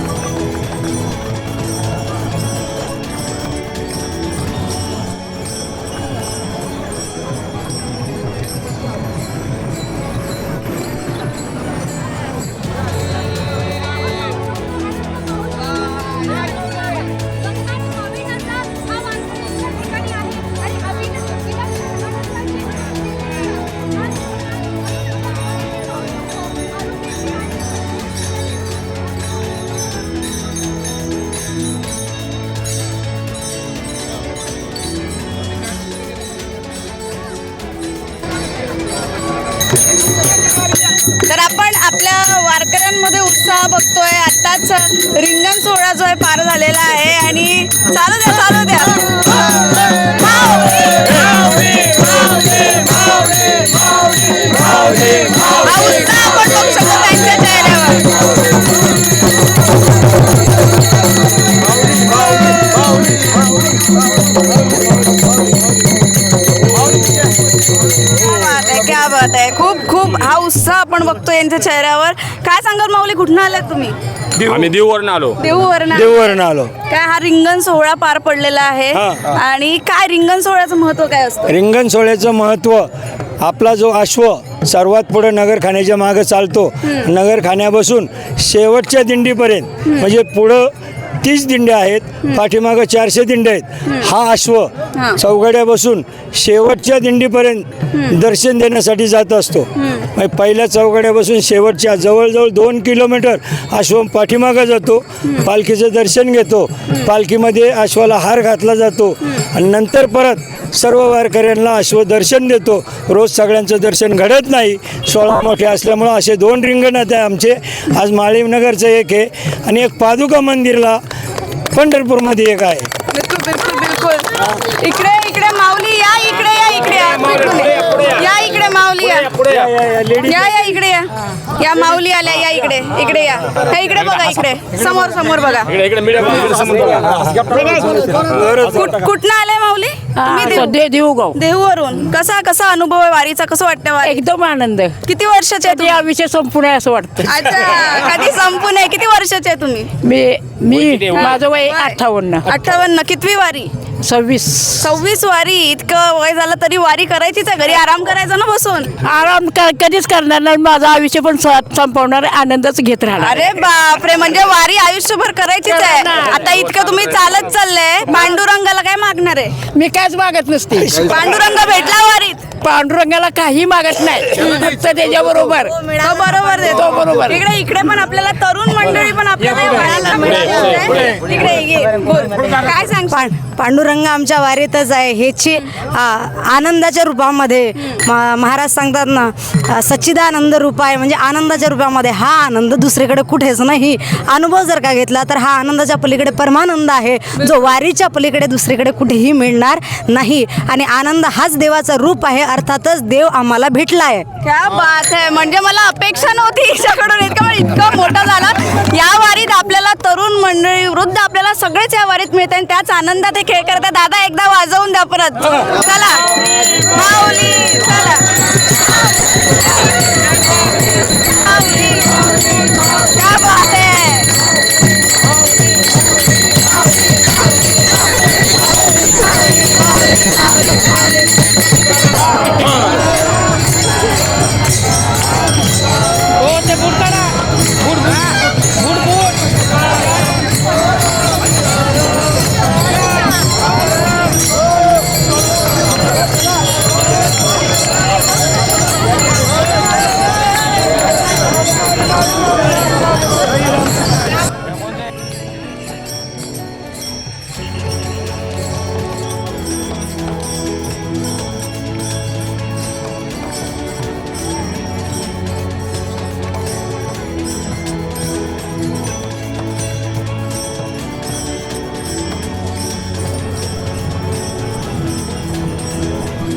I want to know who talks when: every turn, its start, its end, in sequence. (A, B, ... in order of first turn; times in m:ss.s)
0:41.1-0:49.2 A
0:50.0-0:51.4 A
0:55.5-0:58.1 A
1:08.1-1:14.0 A
1:14.4-1:14.7 B
1:14.5-1:15.4 C
1:15.4-1:16.3 A
1:15.9-1:16.7 B
1:16.9-1:21.5 A
1:18.9-1:19.2 B
1:21.5-1:22.9 B
1:23.4-2:01.0 B
1:33.8-1:34.1 A
1:34.9-1:35.2 A
1:37.9-1:38.2 A
1:39.8-1:40.1 A
2:01.7-2:02.9 B
2:03.1-2:09.4 A
2:09.5-2:10.4 B
2:10.2-2:15.8 A
2:15.8-2:17.1 C
2:18.2-2:18.9 B
2:18.6-2:20.7 A
2:20.2-2:21.4 D
2:21.3-2:24.2 A
2:24.0-2:25.0 D
2:25.0-2:26.0 A
2:25.6-2:27.5 D
2:27.3-2:30.0 A
2:30.0-2:32.4 D
2:31.1-2:33.7 A
2:34.0-2:34.8 D
2:34.8-2:38.9 A
2:39.0-2:43.4 D
2:43.2-2:49.6 A
2:45.7-2:46.4 D
2:49.7-2:51.1 D
2:50.9-2:52.5 A
2:52.6-2:55.8 D
2:55.9-3:03.3 A
2:56.7-2:57.4 D
3:03.1-3:24.2 E
3:24.4-3:38.2 A
3:41.3-3:42.2 A
3:43.1-3:44.3 A
3:56.4-3:57.3 D